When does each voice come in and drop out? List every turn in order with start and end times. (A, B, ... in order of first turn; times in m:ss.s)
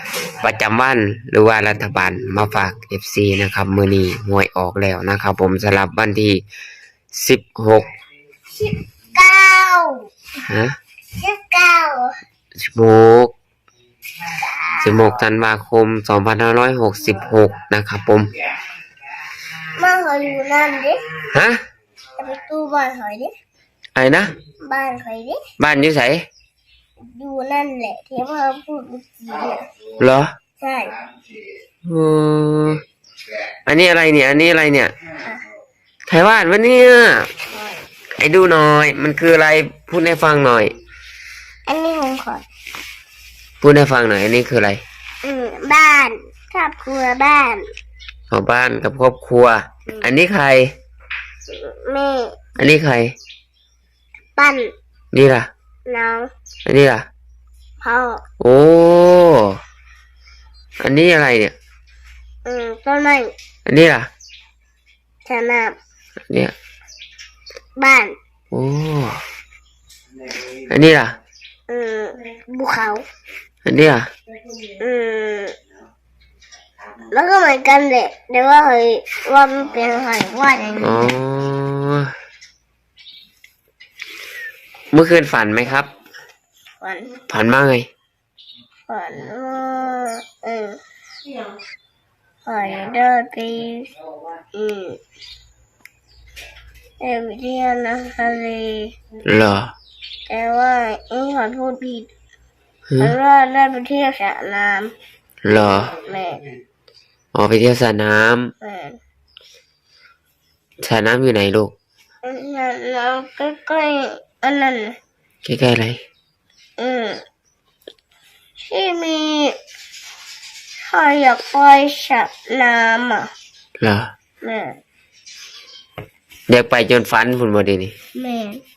0:00.4-0:06.4 A
0:07.1-0:07.9 A
0:08.5-0:10.0 B
0:10.4-0:10.8 A
0:11.2-0:12.2 B
0:12.6-0:13.3 A
0:14.3-0:15.1 B
0:14.8-0:18.3 A
0:19.7-0:21.1 B
0:21.3-0:21.6 A
0:22.2-0:23.3 B
0:24.0-0:24.3 A
0:24.6-0:25.4 B
0:25.6-0:26.2 A
0:27.1-0:29.6 B
0:30.0-0:30.3 A
0:30.6-0:31.0 B
0:31.8-0:32.8 A
0:33.6-0:34.9 A
0:36.1-0:37.3 A
0:38.2-0:40.7 A
0:41.6-0:42.4 B
0:43.6-0:44.8 A
0:45.2-0:47.7 B
0:48.3-0:50.7 A
0:51.5-0:52.4 B
0:52.6-0:53.2 A
0:54.4-0:54.7 B
0:55.1-0:55.5 A
0:55.9-0:56.3 B
0:56.6-0:57.1 A
0:57.8-0:58.2 B
0:58.4-0:59.6 A
1:00.8-1:01.5 A
1:02.4-1:03.3 B
1:03.7-1:04.1 A
1:05.2-1:05.8 B
1:07.8-1:08.2 B
1:08.5-1:09.2 A
1:10.7-1:11.2 A
1:11.7-1:13.0 B
1:13.6-1:14.1 A
1:14.8-1:15.6 B
1:17.1-1:21.1 B
1:20.8-1:22.1 A
1:24.9-1:25.9 A
1:26.8-1:27.1 B
1:27.3-1:27.9 A
1:28.9-1:30.8 B
1:32.4-1:33.9 B
1:34.5-1:35.0 B
1:37.0-1:38.9 B
1:39.2-1:39.7 A
1:40.3-1:42.1 B
1:42.9-1:43.1 A
1:43.0-1:44.9 B
1:45.4-1:45.9 A
1:45.9-1:46.4 B
1:47.3-1:48.5 A
1:48.6-1:49.0 B
1:50.8-1:51.7 A
1:52.2-1:55.0 B
1:55.4-1:56.0 A
1:56.8-1:57.2 B
1:58.6-1:59.6 B
2:00.8-2:03.3 B
2:03.8-2:04.1 A
2:04.4-2:04.8 B
2:06.5-2:07.9 A
2:08.1-2:08.6 B